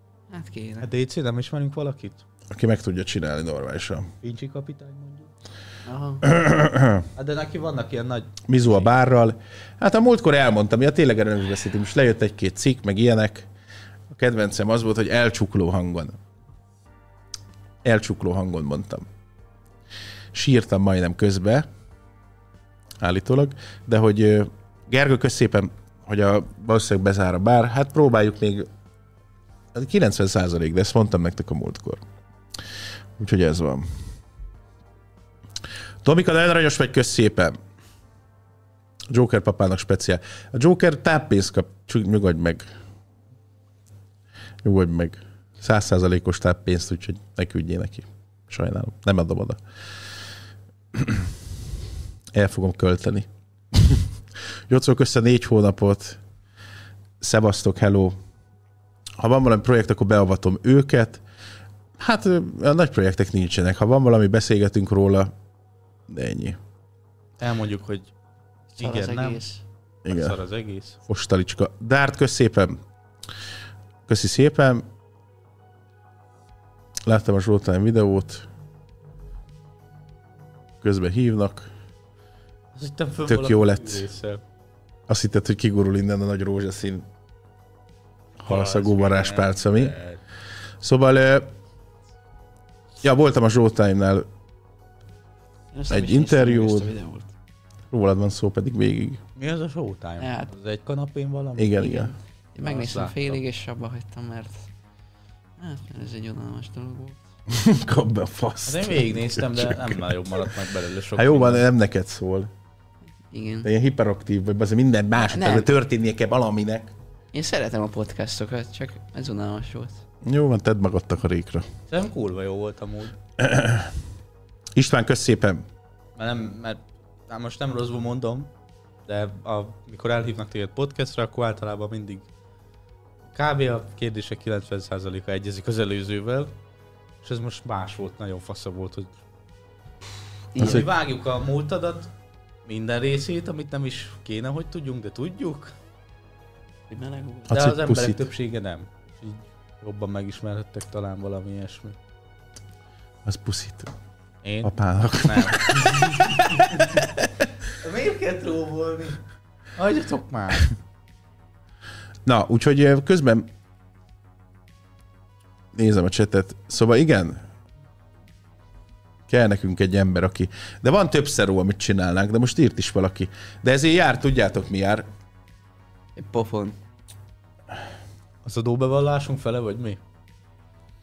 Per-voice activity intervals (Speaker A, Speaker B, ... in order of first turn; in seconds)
Speaker A: 0.3-0.9, 5.8-6.2, 68.8-69.6, 95.7-97.3, 100.2-100.5, 101.8-104.7, 105.6-107.2, 113.3-113.7, 115.2-115.7, 117.3-120.0, 140.5-140.8, 146.9-147.5, 176.2-176.8
Speaker B: 0.8-2.2, 4.2-5.3, 7.1-8.9, 67.4-68.1, 68.8-69.4, 70.1-71.0, 82.7-84.4, 88.4-90.2, 99.3-102.0, 102.6-103.4, 108.7-111.7, 121.9-123.2, 126.2-128.5, 129.1-132.3, 133.3-136.5, 137.2-139.1, 140.6-142.1, 142.7-145.7, 147.5-152.0, 154.4-157.1, 157.7-159.2, 159.8-160.7, 178.4-180.0
Speaker C: 2.5-4.1, 6.2-7.1, 8.5-13.5, 14.1-16.2, 17.8-19.1, 20.3-21.6, 23.0-28.7, 29.7-32.0, 33.2-33.9, 36.0-37.6, 39.1-42.6, 44.6-49.6, 50.9-51.3, 52.3-54.1, 54.7-56.2, 57.2-58.1, 59.2-61.2, 62.0-65.3, 66.1-66.6, 70.0-70.4, 71.1-72.8, 74.1-74.8, 77.0-78.5, 80.8-81.7, 83.2-84.0, 85.1-87.0, 88.4-89.9, 90.8-91.5, 93.0-94.3, 95.9-96.9, 97.9-99.2, 101.6-102.1, 107.5-110.5, 111.1-112.5, 113.6-116.9, 120.2-121.7, 123.4-123.9, 124.7-125.6, 140.6-140.9, 147.5-148.3, 153.2-153.9, 154.6-157.3, 162.2-163.5, 165.7-167.4, 169.3-175.1